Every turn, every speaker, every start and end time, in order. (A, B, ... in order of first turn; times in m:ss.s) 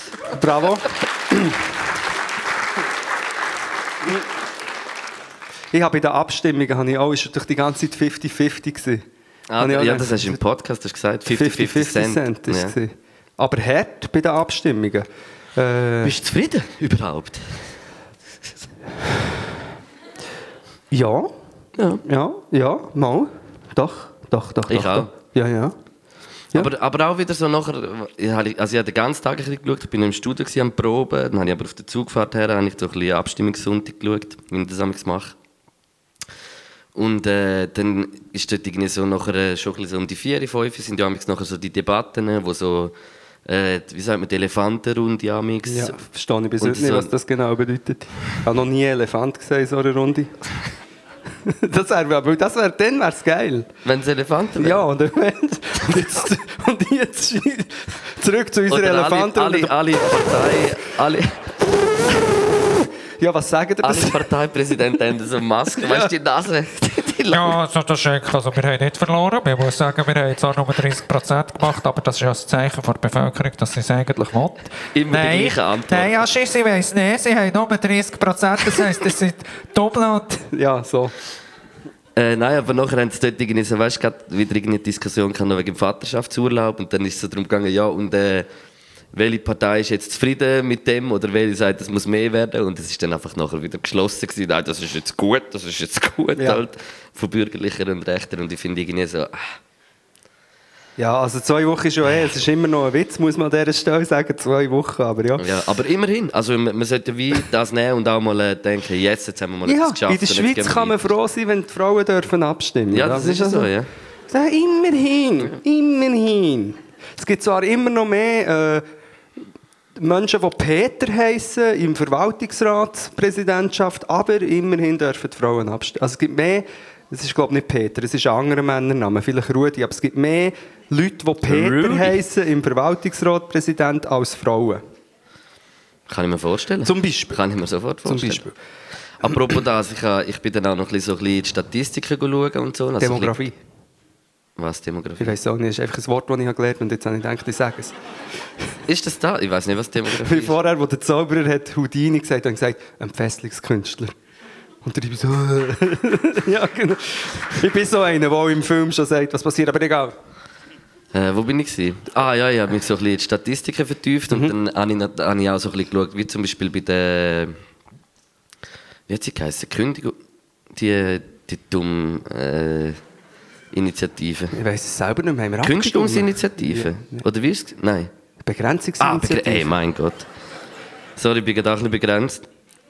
0:00.2-0:01.6 A
0:05.7-0:09.0 A
0:09.5-0:12.7 B
0:09.6-0:10.4 A
0:11.3-0:16.1 A
0:16.0-0:17.7 B
0:20.9-0:21.3 A
0:22.0-0:25.7 A
0:24.7-0:25.1 B
0:26.5-0:35.3 B
0:36.9-0:42.9 B
0:43.4-0:46.0 B
0:45.7-0:50.3 A
0:46.6-0:47.1 B
0:51.4-0:53.7 A
0:53.8-0:54.8 B
0:54.6-0:59.7 A
0:58.7-1:01.5 B
1:03.2-1:04.2 A
1:03.8-1:07.6 B
1:05.8-1:06.1 A
1:07.3-1:20.5 C
1:14.9-1:16.2 B
1:20.5-1:21.1 A
1:22.2-1:28.5 B
1:29.1-1:39.4 B
1:41.0-1:45.4 A
1:45.4-1:51.1 B
1:49.6-1:53.7 A
1:52.9-1:53.9 B
1:54.3-1:58.8 A
2:00.0-2:14.8 A
2:11.4-2:12.2 B
2:16.1-2:18.4 B
2:16.8-2:17.4 A
2:18.0-2:18.5 A
2:19.2-2:23.3 B
2:23.0-2:23.6 A
2:24.6-2:25.3 B
2:25.2-2:27.9 A
2:28.9-2:30.6 B
2:30.2-2:34.1 A
2:34.8-2:40.1 A
2:41.1-2:47.6 B
2:49.1-2:50.2 B
2:50.7-2:53.0 B
2:53.7-2:54.6 B
2:54.5-2:57.2 A
2:55.6-2:58.1 B
2:58.4-2:59.7 A
2:59.0-3:00.2 B
3:01.2-3:02.4 B